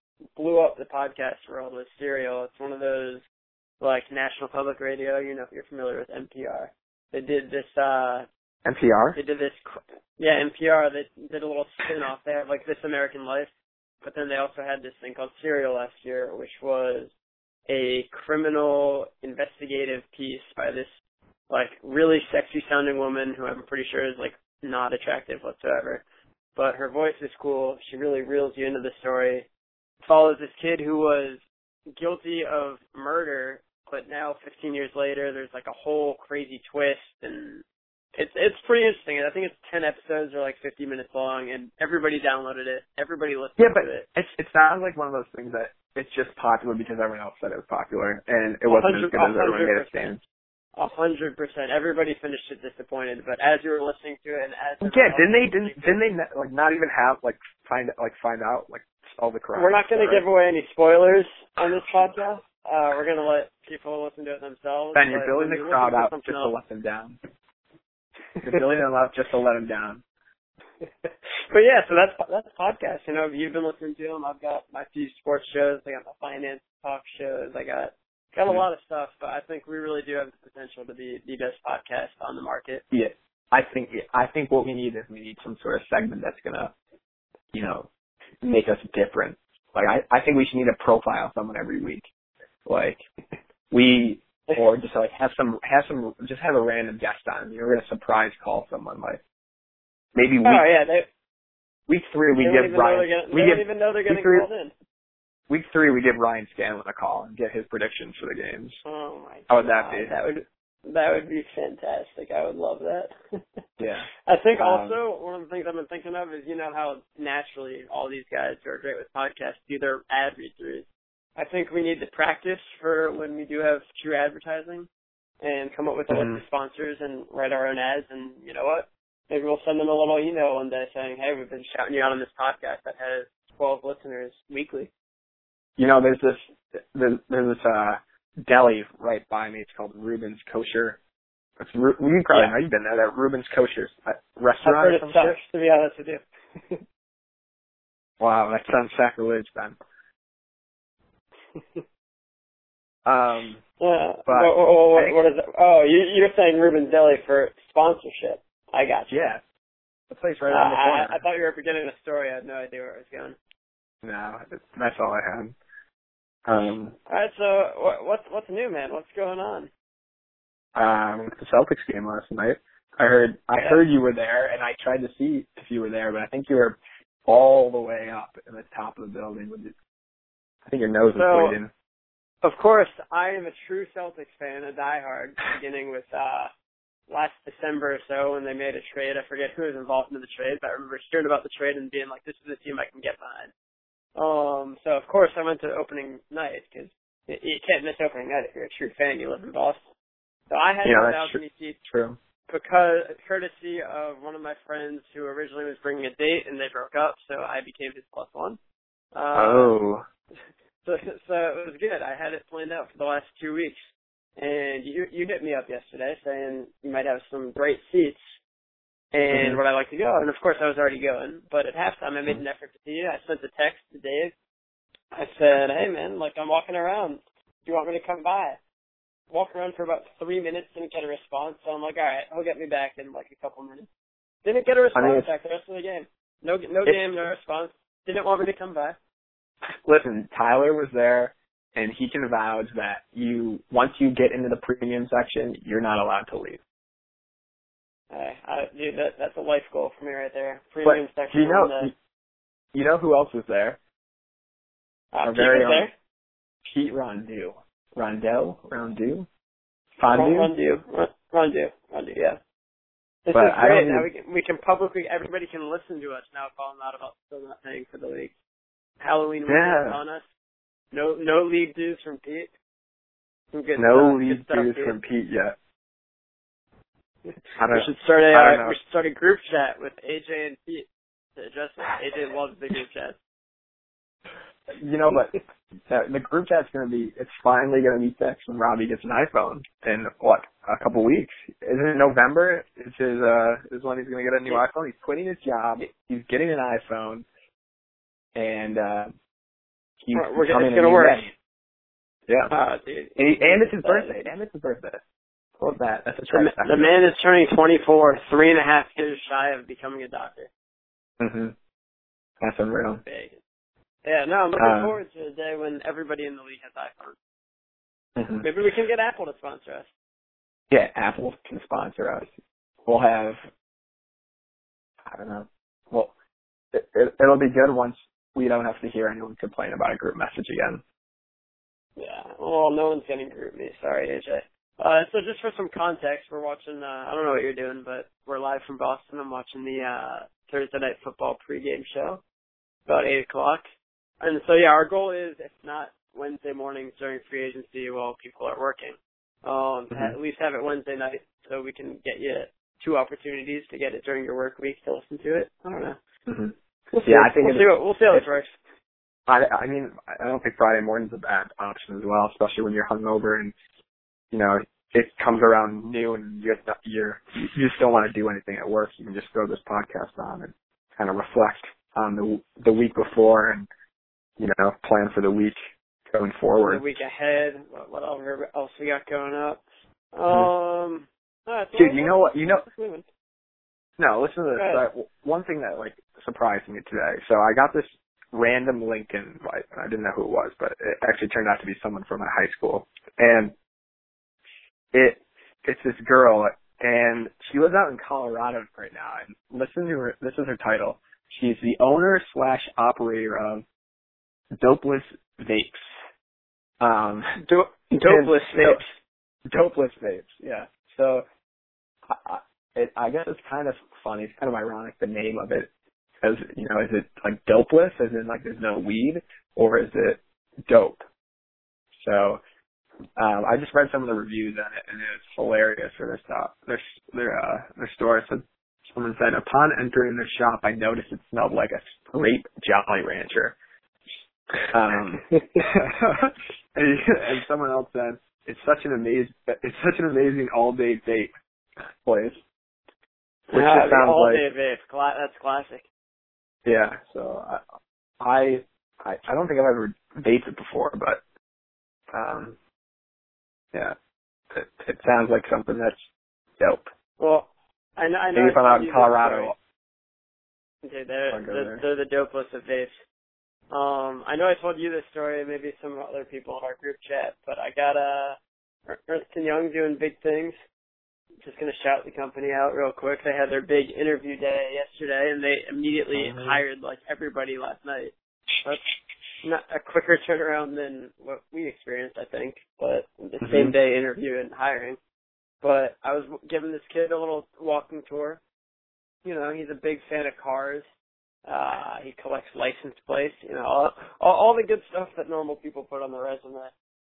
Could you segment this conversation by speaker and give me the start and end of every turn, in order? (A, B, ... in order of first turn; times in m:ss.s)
0:00.4-0:03.2 A
0:03.8-0:08.3 A
0:08.6-0:09.2 B
0:09.2-0:13.5 A
0:14.0-0:17.1 A
0:17.7-0:20.9 A
0:21.5-0:26.0 A
0:26.6-0:29.5 A
0:30.0-0:31.4 A
0:32.0-0:37.6 A
0:38.2-0:44.0 A
0:43.6-0:50.2 B
0:48.7-0:50.1 A
0:50.8-0:56.0 A
0:54.8-1:00.2 B
0:59.5-1:06.5 A
1:04.9-1:07.2 B
1:08.4-1:10.0 B
1:11.5-1:22.8 A
1:22.9-1:26.7 B
1:27.5-1:27.9 B
1:28.4-1:32.1 B
1:32.7-1:33.0 B
1:33.7-1:39.2 B
1:40.2-1:40.6 B
1:40.4-1:41.1 A
1:41.9-1:44.5 B
1:42.3-1:44.7 A
1:45.5-1:48.8 B
1:48.8-1:53.6 A
1:49.5-1:50.2 B
1:53.8-1:55.0 B
1:54.2-2:00.9 A
2:01.4-2:04.9 A
2:05.4-2:14.9 A
2:06.1-2:06.4 B
2:15.8-2:21.0 B
2:21.6-2:25.4 B
2:24.6-2:26.8 A
2:28.2-2:29.8 B
2:33.1-2:33.6 B
2:33.8-2:39.3 A
2:34.3-2:35.2 B
2:39.1-2:39.4 B
2:40.1-2:41.2 B
2:40.5-2:43.4 A
2:44.0-2:45.6 B
2:46.5-2:47.0 B
2:47.1-2:49.7 A
2:50.8-2:59.7 B
2:53.6-2:53.8 A
3:00.7-3:01.7 B
3:01.2-3:01.6 A
3:02.4-3:06.5 A
3:07.1-3:13.5 A
3:14.2-3:19.8 A
3:20.5-3:21.8 A
3:20.8-3:22.2 B
3:22.5-3:28.6 A
3:29.1-3:29.7 A
3:29.3-3:30.0 B
3:30.8-3:33.8 A
3:34.4-3:38.4 A
3:39.1-3:44.3 A
3:39.3-3:39.6 B
3:45.1-3:48.6 A
3:49.3-3:53.9 A
3:54.4-3:59.0 A
3:55.0-3:55.3 B
3:59.8-4:06.6 B
4:08.1-4:11.9 A
4:10.8-4:11.9 B
4:12.7-4:13.8 B
4:15.1-4:15.9 A
4:15.2-4:15.9 B
4:16.6-4:19.3 B
4:20.0-4:20.5 B
4:20.1-4:22.4 A
4:23.3-4:28.3 A
4:23.3-4:24.1 B
4:29.0-4:30.2 A
4:29.5-4:30.0 B
4:30.9-4:32.5 A
4:33.5-4:35.0 A
4:33.8-4:35.6 B
4:37.6-4:38.8 B
4:37.7-4:43.2 A
4:44.7-4:45.3 B
4:45.9-4:57.3 B
4:58.4-4:59.1 B
5:00.0-5:01.3 B
5:00.1-5:01.3 A
5:02.5-5:04.2 A
5:03.2-5:05.0 B
5:05.6-5:06.9 B
5:06.3-5:10.5 A
5:11.2-5:11.6 B
5:12.4-5:13.0 B
5:13.0-5:13.4 A
5:14.0-5:17.2 A
5:14.6-5:15.0 B
5:18.2-5:18.5 B
5:18.4-5:19.9 A
5:20.7-5:22.3 B
5:22.9-5:23.4 B
5:25.1-5:26.1 B
5:26.7-5:30.8 B
5:32.0-5:42.2 A
5:42.9-5:43.6 A
5:44.2-5:56.0 A
5:49.9-5:50.2 B
5:56.3-5:56.5 B
5:56.9-5:58.6 A
5:57.0-5:58.3 B
5:59.3-6:03.5 B
6:04.3-6:13.7 B
6:14.4-6:15.6 B
6:16.1-6:16.8 B
6:16.6-6:19.6 A
6:20.1-6:23.1 A
6:21.7-6:22.6 B
6:24.0-6:33.6 B
6:24.6-6:24.8 A
6:34.9-6:43.6 B
6:44.6-6:45.9 B
6:46.8-6:47.3 B
6:47.4-6:48.9 A
6:48.0-6:48.8 B
6:49.5-6:51.2 B
6:52.1-6:55.7 B
6:56.2-7:01.0 B
7:02.0-7:02.4 B
7:03.2-7:13.6 B
7:14.7-7:21.3 B
7:22.0-7:22.4 B
7:23.5-7:24.4 B
7:23.5-7:25.8 A
7:26.6-7:27.6 B
7:28.2-7:31.2 B
7:32.1-7:32.6 B
7:34.5-7:36.0 B
7:36.6-7:36.9 B
7:37.2-7:39.5 A
7:38.3-7:39.6 B
7:40.8-7:43.0 A
7:41.3-7:41.8 B
7:43.7-7:50.6 A
7:51.4-7:58.1 A
7:56.2-7:56.6 B
7:59.4-8:05.0 A
8:03.4-8:03.7 B
8:05.6-8:08.4 A
8:09.2-8:10.8 A
8:11.5-8:16.7 A